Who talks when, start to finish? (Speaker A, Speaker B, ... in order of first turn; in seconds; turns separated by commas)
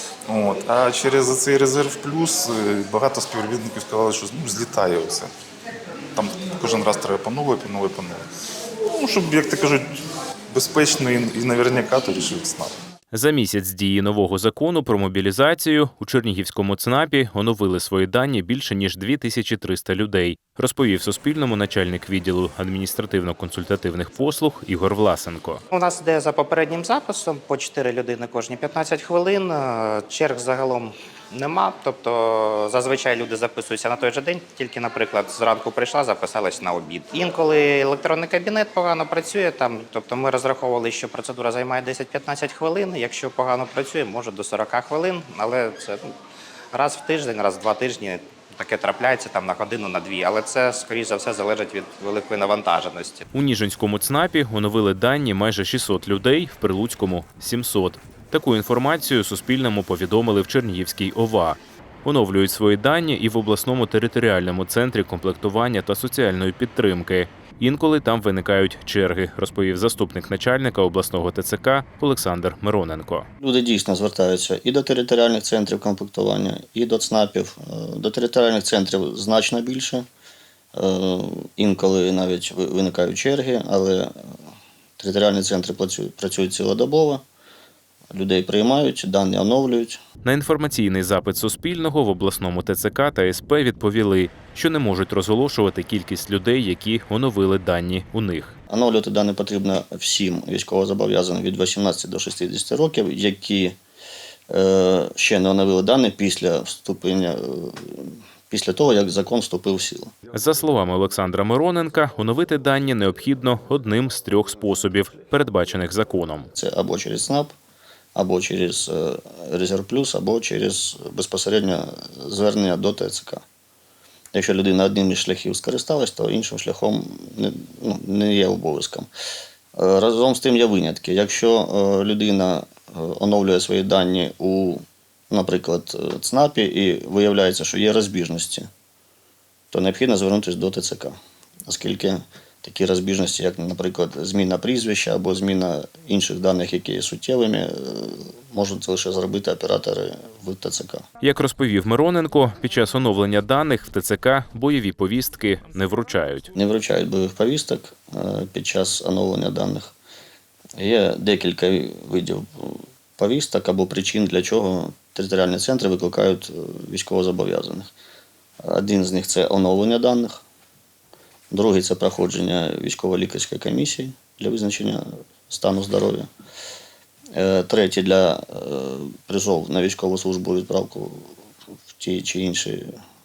Speaker A: 0.3-5.3, Speaker A: 6.1-8.2, Speaker A: 8.9-10.0, Speaker A: 10.5-12.8, Speaker B: 13.1-25.6, Speaker C: 25.7-46.1, Speaker C: 46.7-53.3, Speaker B: 53.3-73.3, Speaker D: 73.4-80.0, Speaker D: 80.7-84.3, Speaker D: 85.0-87.2, Speaker D: 88.1-90.0, Speaker B: 90.2-98.5, Speaker D: 98.7-103.8, Speaker D: 104.5-110.1, Speaker B: 110.3-116.5, Speaker D: 116.6-117.5, Speaker D: 118.2-123.4, Speaker D: 124.3-129.1, Speaker D: 129.8-138.7, Speaker D: 139.7-141.2, Speaker D: 141.7-151.1, Speaker B: 151.2-156.5, Speaker D: 156.6-159.9, Speaker D: 160.8-167.9, Speaker D: 168.6-170.4, Speaker D: 171.5-176.3, Speaker D: 177.3-182.9